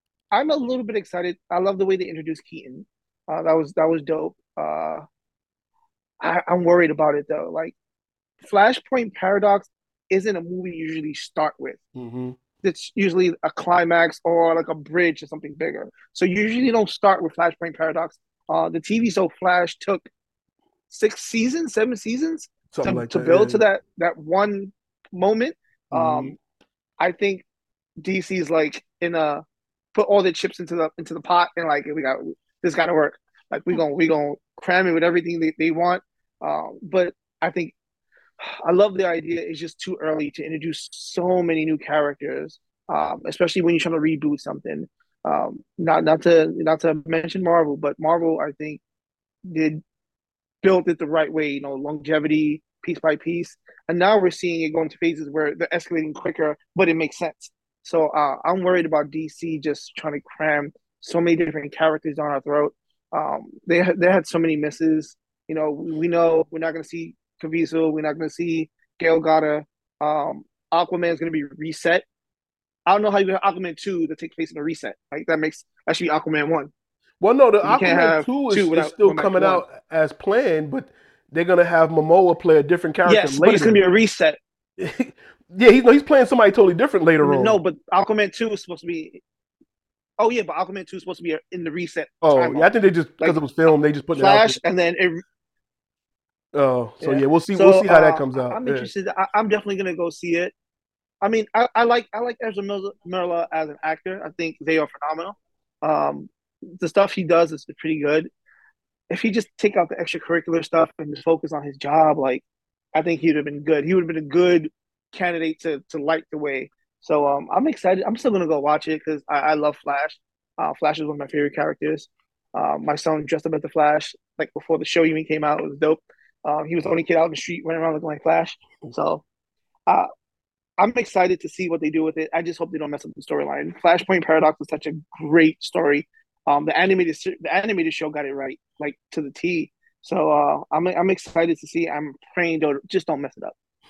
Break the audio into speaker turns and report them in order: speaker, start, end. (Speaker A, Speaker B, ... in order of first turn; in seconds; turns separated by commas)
Speaker A: 0.3-5.0, Speaker A: 6.2-7.7, Speaker A: 8.4-11.8, Speaker B: 11.9-12.4, Speaker A: 12.6-20.1, Speaker A: 20.9-26.4, Speaker B: 22.7-23.6, Speaker B: 25.9-26.3, Speaker A: 27.0-27.4, Speaker A: 28.0-37.7, Speaker A: 38.4-48.8, Speaker A: 49.5-49.8, Speaker A: 50.6-72.0, Speaker A: 72.8-76.7, Speaker B: 77.2-83.8, Speaker A: 77.6-79.6, Speaker A: 83.1-84.4, Speaker B: 84.8-87.6, Speaker A: 87.2-89.2, Speaker A: 90.2-92.7, Speaker B: 92.2-94.6, Speaker A: 94.2-95.2, Speaker B: 96.5-98.9, Speaker A: 97.0-100.5, Speaker A: 101.2-108.3, Speaker A: 109.1-129.2, Speaker A: 130.8-143.5